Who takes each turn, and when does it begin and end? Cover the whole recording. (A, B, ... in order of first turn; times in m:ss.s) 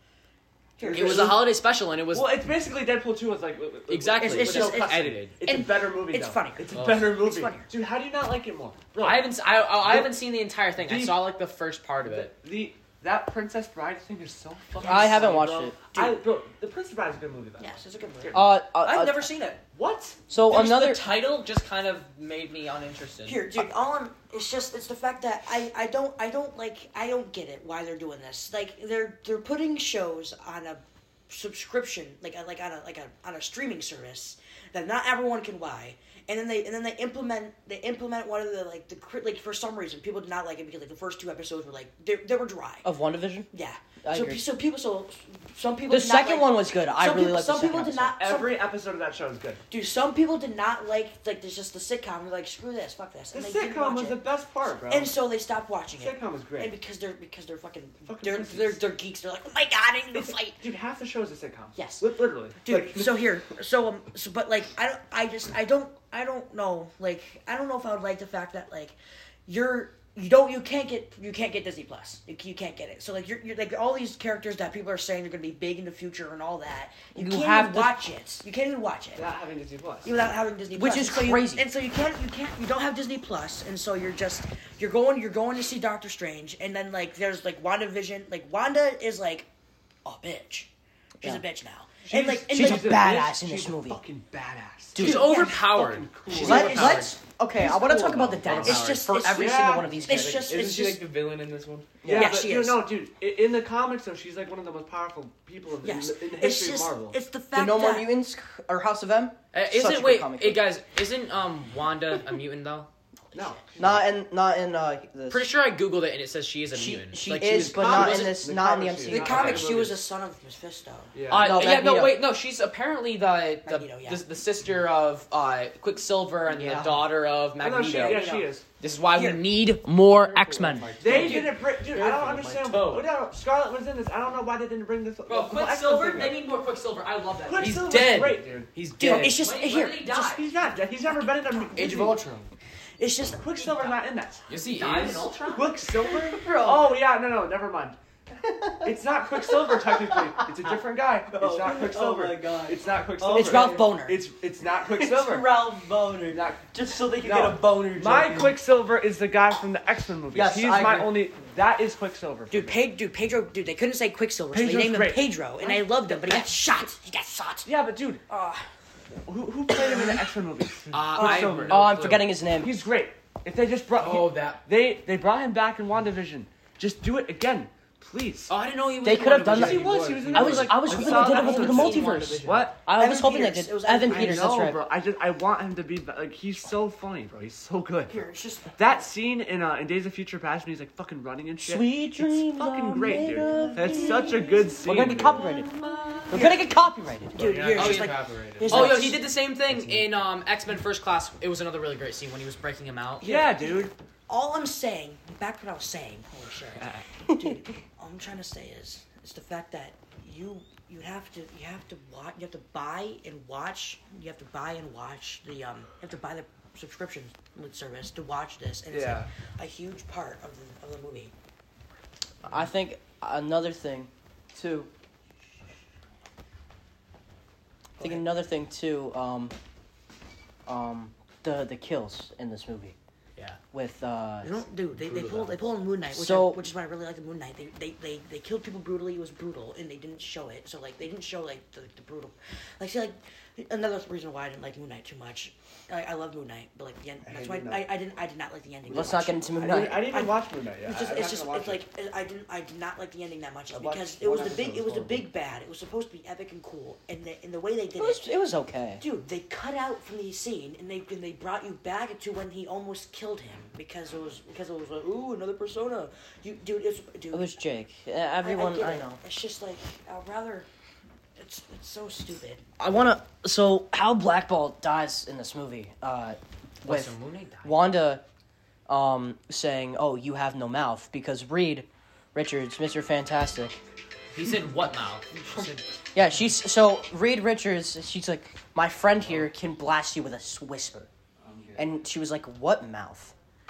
0:00.8-0:01.5 A
0:00.9-0:01.4 B
0:00.9-0:02.3 C
0:02.1-0:10.2 B
0:03.9-0:05.4 C
0:04.2-0:07.7 A
0:06.7-0:07.0 C
0:09.0-0:12.3 C
0:10.8-0:11.4 B
0:12.0-0:18.6 B
0:14.8-0:15.3 A
0:14.8-0:15.8 D
0:15.9-0:16.2 A
0:17.6-0:18.4 A
0:18.3-0:19.3 D
0:18.8-0:19.6 C
0:19.6-0:20.2 B
0:20.3-0:21.1 D
0:20.4-0:23.5 C
0:23.2-0:42.8 A
0:42.8-0:43.5 D
0:43.5-0:48.7 A
0:44.0-0:44.4 D
0:45.9-0:48.2 D
0:48.2-0:49.6 B
0:49.7-0:54.2 A
0:53.3-0:55.2 B
0:54.9-1:00.6 A
0:55.9-0:56.7 B
0:58.0-0:58.8 B
1:00.1-1:03.3 B
1:01.8-1:19.2 A
1:17.1-1:18.0 D
1:19.1-1:20.2 B
1:20.0-1:29.5 A
1:20.7-1:21.7 D
1:30.0-1:30.7 A
1:31.2-1:33.0 A
1:32.0-1:37.0 B
1:32.5-1:34.0 D
1:34.9-1:35.3 D
1:35.0-1:37.1 C
1:35.0-1:35.7 A
1:36.3-1:37.2 A
1:36.3-1:40.5 D
1:37.6-1:38.5 B
1:38.4-1:39.1 C
1:38.5-1:41.0 A
1:39.3-1:40.0 B
1:39.8-1:42.0 E
1:42.0-1:42.4 D
1:42.0-1:47.2 B
1:42.1-1:42.9 A
1:45.8-1:48.1 A
1:47.5-1:50.6 D
1:49.5-1:52.9 C
1:53.3-1:54.1 B
1:53.8-1:55.5 D
1:55.3-1:58.4 C
1:56.7-1:59.7 D
1:57.4-2:00.1 B
1:59.1-2:01.1 A
2:01.1-2:01.7 B
2:01.3-2:08.3 C
2:01.3-2:02.2 D
2:03.6-2:04.2 A
2:06.5-2:07.0 D
2:07.6-2:08.6 B
2:07.9-2:08.5 A
2:08.8-2:11.0 C
2:09.1-2:09.4 A
2:10.1-2:12.4 E
2:11.0-2:16.4 B
2:11.0-2:12.4 D
2:12.6-2:13.1 C
2:15.3-2:20.4 C
2:17.4-2:19.2 B
2:19.0-2:20.3 A
2:20.2-2:22.2 B
2:21.0-2:21.9 A
2:21.7-2:22.5 E
2:23.0-2:23.5 A
2:23.3-2:28.0 B
2:24.5-2:25.7 C
2:26.0-2:26.9 D
2:28.4-2:34.1 D
2:28.8-2:35.6 B
2:33.3-2:34.2 A
2:34.8-2:38.6 D
2:36.3-2:42.8 B
2:40.3-2:41.2 D
2:42.5-2:47.7 A
2:44.5-2:45.4 B
2:45.6-2:46.4 D
2:47.6-2:48.2 B
2:48.3-2:48.7 A
2:49.2-2:58.5 B
2:50.9-2:52.3 C
2:51.2-2:51.5 A
2:51.5-2:52.7 D
2:54.0-2:54.6 C
2:54.0-2:54.5 E
2:58.5-3:02.7 C
2:59.0-3:04.8 D
2:59.5-3:02.8 B
2:59.7-3:00.7 E
3:00.9-3:02.2 A
3:02.9-3:04.7 A
3:04.0-3:16.3 B
3:08.1-3:09.0 A
3:11.6-3:15.7 D
3:13.5-3:14.5 A
3:16.3-3:17.4 D
3:16.3-3:16.6 A
3:17.3-3:19.2 A
3:17.3-3:19.0 E
3:17.7-3:23.2 C
3:23.2-3:41.3 A
3:23.2-3:23.9 B
3:27.3-3:27.5 D
3:38.9-3:39.3 B
3:42.4-3:44.9 D
3:48.0-3:49.5 D
3:50.6-3:53.0 D
3:53.7-3:54.6 D
3:54.4-4:18.3 A
3:55.1-3:55.4 E
3:56.1-3:56.6 D
4:07.2-4:07.9 B
4:08.9-4:10.1 D
4:09.5-4:11.8 B
4:13.7-4:15.3 B
4:18.0-4:19.0 D
4:19.0-4:27.5 A
4:27.3-4:29.2 D
4:28.4-4:30.7 A
4:31.4-4:32.6 A
4:32.8-4:38.2 D
4:36.8-4:37.9 C
4:38.9-4:43.7 D
4:44.3-4:45.8 C
4:46.1-4:51.1 D
4:51.4-4:52.0 B
4:51.8-4:53.3 D